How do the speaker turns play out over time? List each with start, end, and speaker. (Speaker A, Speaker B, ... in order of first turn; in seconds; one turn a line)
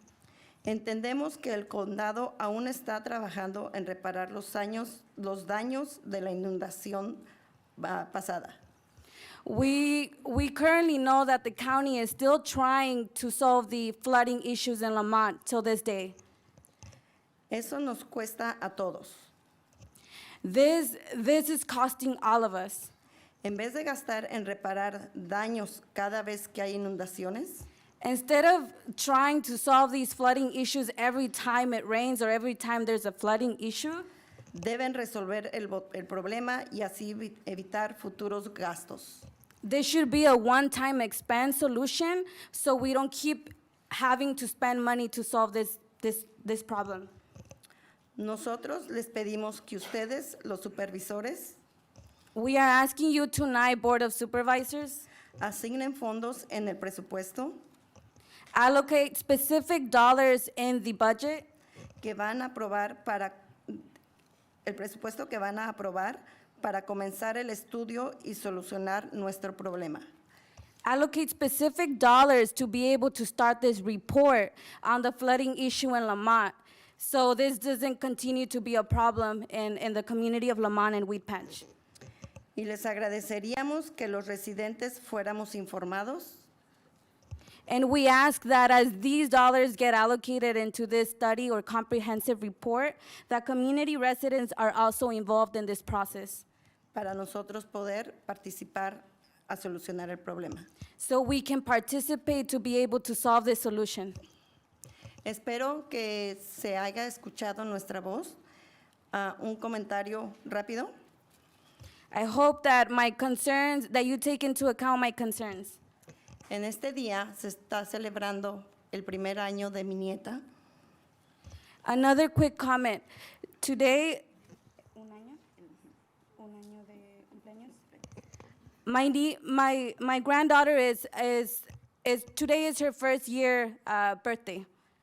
Speaker A: 0.7-7.3
Speaker A: 7.8-8.6
Speaker B: 9.4-16.2
Speaker A: 17.5-19.3
Speaker B: 20.4-22.9
Speaker A: 23.4-27.7
Speaker B: 28.0-34.1
Speaker A: 34.5-39.3
Speaker B: 39.6-47.1
Speaker A: 48.2-51.6
Speaker B: 52.4-55.0
Speaker A: 55.4-57.6
Speaker B: 58.5-61.5
Speaker A: 62.0-63.9
Speaker A: 64.7-70.1
Speaker B: 70.8-81.7
Speaker A: 82.6-86.5
Speaker B: 87.7-96.4
Speaker A: 96.9-100.7
Speaker B: 101.0-104.2
Speaker A: 105.2-108.4
Speaker A: 109.1-110.9
Speaker B: 112.1-115.8
Speaker A: 116.5-120.4
Speaker B: 121.8-123.0
Speaker B: 123.6-124.2
Speaker B: 125.0-125.4
Speaker B: 126.4-127.8
Speaker B: 128.9-134.7